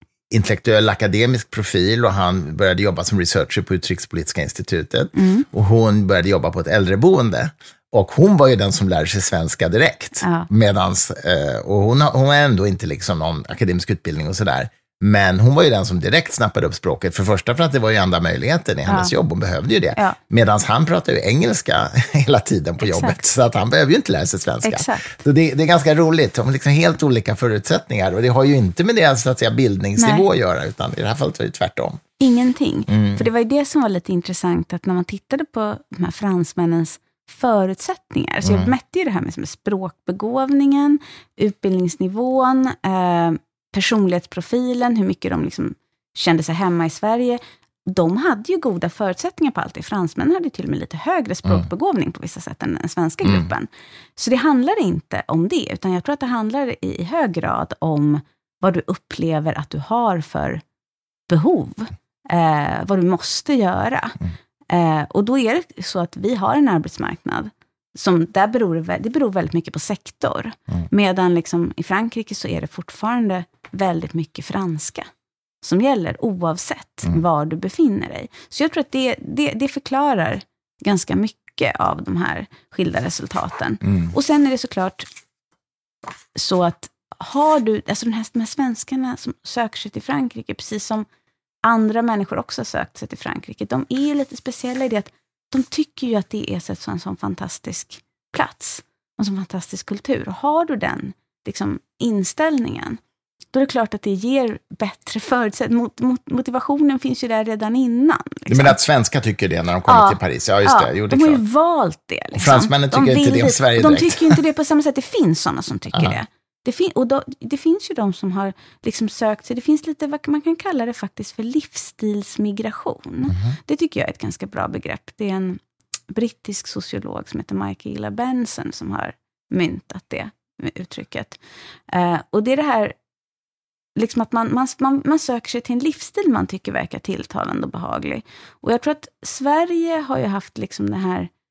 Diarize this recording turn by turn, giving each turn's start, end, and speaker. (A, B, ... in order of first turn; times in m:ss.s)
0:00.3-0:32.0 A
0:05.1-0:05.4 B
0:10.2-0:10.5 B
0:18.9-0:19.1 B
0:22.8-0:23.2 B
0:24.6-0:25.2 B
0:30.0-0:30.2 B
0:32.2-1:00.6 B
0:32.9-0:33.2 A
1:01.3-1:15.1 B
1:15.6-1:25.1 B
1:26.3-1:31.0 B
1:31.6-1:43.0 B
1:43.5-1:48.8 B
1:48.5-1:51.4 A
1:49.9-2:13.0 B
1:52.3-1:54.4 A
2:03.3-2:03.6 A
2:14.0-2:21.3 B